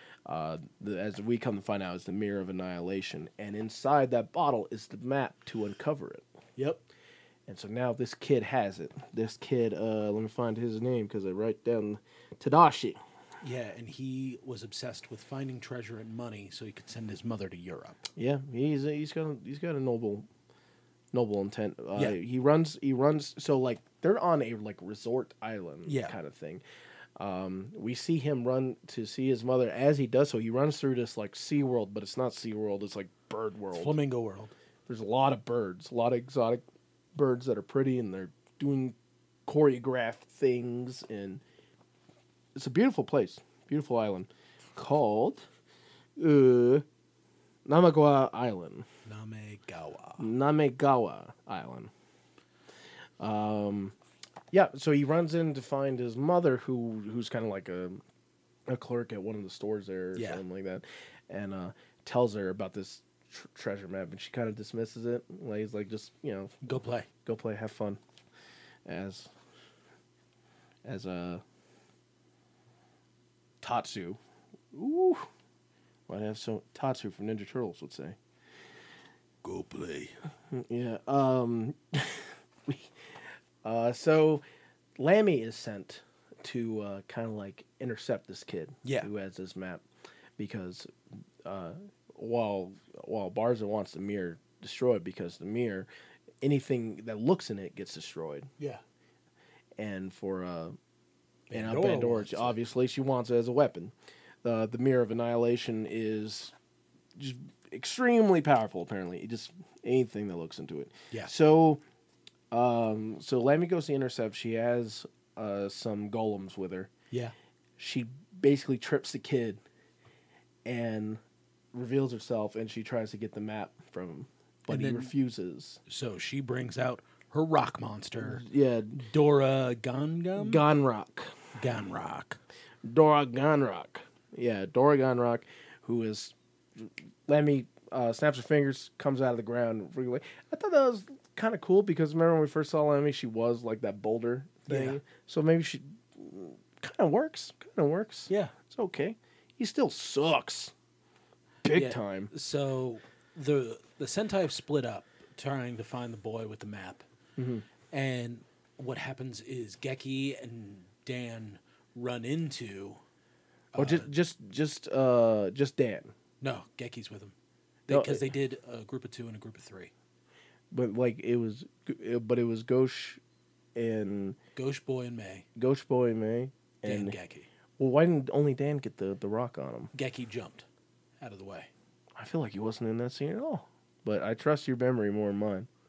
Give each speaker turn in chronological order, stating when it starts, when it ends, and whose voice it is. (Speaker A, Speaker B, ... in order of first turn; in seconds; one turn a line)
Speaker A: 0.3-6.2
Speaker B: 6.6-6.8
Speaker A: 7.5-13.0
Speaker B: 13.4-18.1
Speaker A: 18.1-20.3
Speaker A: 21.1-26.6
Speaker B: 25.9-26.1
Speaker A: 27.2-33.9
Speaker B: 33.7-34.5
Speaker A: 34.9-36.6
Speaker A: 37.1-38.9
Speaker A: 39.5-41.4
Speaker A: 42.5-45.4
Speaker A: 46.2-46.8
Speaker A: 47.6-48.9
Speaker B: 49.0-50.3
Speaker A: 50.2-51.9
Speaker A: 53.2-54.0
Speaker A: 54.5-58.0
Speaker A: 58.7-66.5
Speaker B: 60.1-60.4
Speaker B: 66.6-67.1
Speaker A: 67.2-68.0
Speaker A: 68.8-69.3
Speaker A: 70.8-71.4
Speaker A: 73.6-74.2
Speaker A: 74.7-75.3
Speaker A: 76.1-78.2
Speaker B: 79.4-80.1
Speaker A: 80.5-82.9
Speaker A: 83.6-84.4
Speaker A: 85.0-89.8
Speaker A: 90.4-90.9
Speaker A: 91.4-95.9
Speaker A: 96.4-98.5
Speaker A: 99.8-100.7
Speaker B: 101.5-102.6
Speaker A: 101.5-106.5
Speaker A: 107.2-111.8
Speaker A: 112.5-116.9
Speaker A: 117.8-119.6
Speaker A: 120.6-121.2
Speaker A: 121.7-125.8
Speaker B: 124.7-125.1
Speaker B: 125.9-128.4
Speaker A: 128.2-129.1
Speaker B: 129.1-130.6
Speaker A: 130.3-131.3
Speaker B: 131.6-132.4
Speaker A: 132.8-150.7
Speaker B: 144.7-145.0
Speaker B: 148.3-148.5
Speaker A: 151.6-152.3
Speaker B: 151.7-157.0
Speaker A: 157.4-157.7
Speaker B: 157.9-163.0
Speaker B: 163.7-164.1
Speaker A: 163.7-166.1
Speaker B: 166.4-167.3
Speaker B: 167.9-169.9
Speaker A: 167.9-168.2
Speaker A: 170.7-173.2
Speaker A: 173.8-174.4
Speaker B: 174.5-175.4
Speaker A: 175.6-177.2
Speaker B: 176.8-177.5
Speaker A: 177.8-179.9
Speaker B: 179.9-180.6
Speaker B: 181.2-181.7
Speaker A: 182.2-185.7